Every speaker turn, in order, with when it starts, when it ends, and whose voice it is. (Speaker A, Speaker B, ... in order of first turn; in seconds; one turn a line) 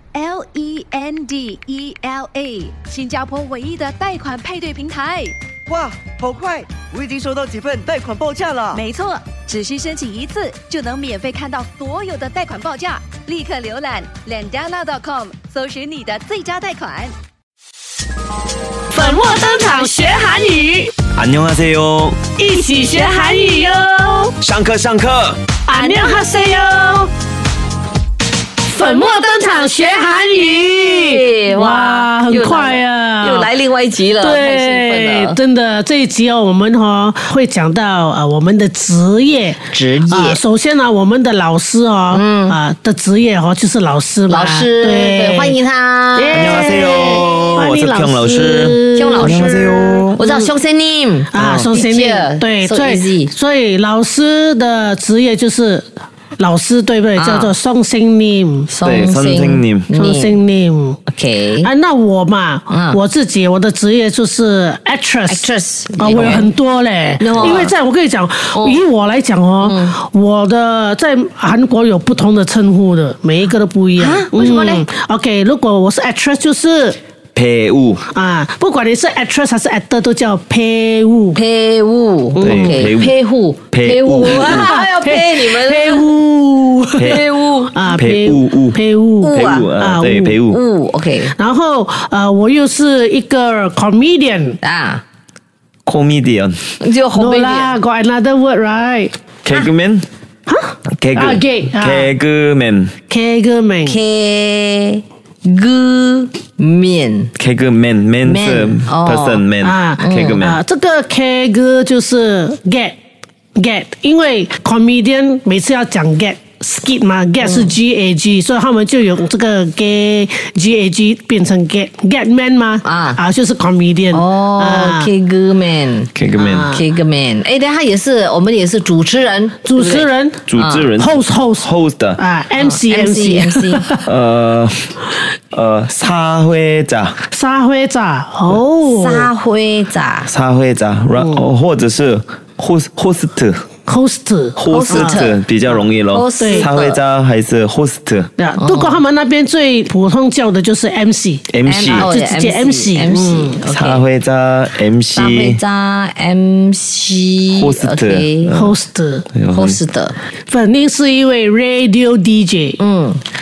Speaker A: 0.1-5.3
Speaker B: 5.7-8.8
Speaker A: 8.7-17.1
Speaker C: 18.9-20.9
Speaker D: 21.1-22.2
Speaker C: 22.4-24.4
Speaker A: 22.6-23.6
Speaker D: 24.4-25.4
Speaker C: 25.7-27.1
Speaker A: 25.7-26.4
Speaker C: 28.7-33.5
Speaker E: 28.7-35.4
Speaker C: 34.2-45.6
Speaker E: 39.7-40.4
Speaker E: 42.1-42.6
Speaker E: 44.3-47.5
Speaker C: 46.1-50.5
Speaker D: 46.3-50.2
Speaker E: 48.9-49.5
Speaker E: 50.2-53.3
Speaker C: 51.3-55.9
Speaker D: 51.3-51.7
Speaker C: 56.4-58.7
Speaker E: 57.1-57.5
Speaker E: 58.7-60.4
Speaker D: 58.8-59.9
Speaker C: 59.9-61.0
Speaker E: 61.1-61.7
Speaker C: 61.6-77.0
Speaker E: 62.7-63.0
Speaker E: 65.3-66.5
Speaker E: 67.2-67.7
Speaker E: 68.5-68.8
Speaker E: 69.6-70.0
Speaker E: 74.0-74.9
Speaker D: 77.3-78.0
Speaker C: 78.1-81.4
Speaker E: 81.3-86.1
Speaker C: 82.3-82.8
Speaker D: 82.4-83.1
Speaker D: 83.7-84.7
Speaker C: 84.2-90.4
Speaker D: 87.0-87.2
Speaker E: 87.0-87.8
Speaker D: 87.9-90.6
Speaker E: 89.2-89.7
Speaker E: 90.5-91.3
Speaker C: 91.3-94.6
Speaker E: 94.6-95.0
Speaker D: 95.8-96.7
Speaker E: 96.8-97.8
Speaker C: 97.1-99.1
Speaker D: 99.4-100.0
Speaker C: 100.5-102.1
Speaker D: 100.9-102.9
Speaker C: 103.1-104.0
Speaker E: 103.8-107.3
Speaker D: 107.4-110.6
Speaker E: 108.2-109.4
Speaker C: 109.6-113.0
Speaker E: 110.0-110.5
Speaker C: 113.5-125.1
Speaker E: 117.4-117.7
Speaker E: 122.8-123.2
Speaker E: 124.1-126.1
Speaker D: 126.1-126.8
Speaker C: 126.4-126.8
Speaker E: 126.7-130.9
Speaker C: 129.6-130.4
Speaker D: 130.5-132.2
Speaker C: 131.0-134.1
Speaker E: 132.6-133.8
Speaker D: 134.0-135.0
Speaker D: 135.5-137.2
Speaker C: 137.3-139.3
Speaker E: 138.8-140.3
Speaker D: 140.2-143.6
Speaker C: 141.2-141.5
Speaker C: 143.9-145.2
Speaker D: 144.6-148.3
Speaker E: 144.7-145.4
Speaker E: 146.1-147.0
Speaker C: 146.4-146.7
Speaker C: 148.4-153.6
Speaker E: 148.6-149.0
Speaker D: 151.5-152.1
Speaker E: 151.6-154.0
Speaker D: 153.7-155.6
Speaker E: 155.1-158.5
Speaker D: 157.5-158.8
Speaker C: 158.5-159.2
Speaker D: 159.3-159.8
Speaker E: 159.5-160.2
Speaker C: 160.5-162.8
Speaker E: 162.8-163.2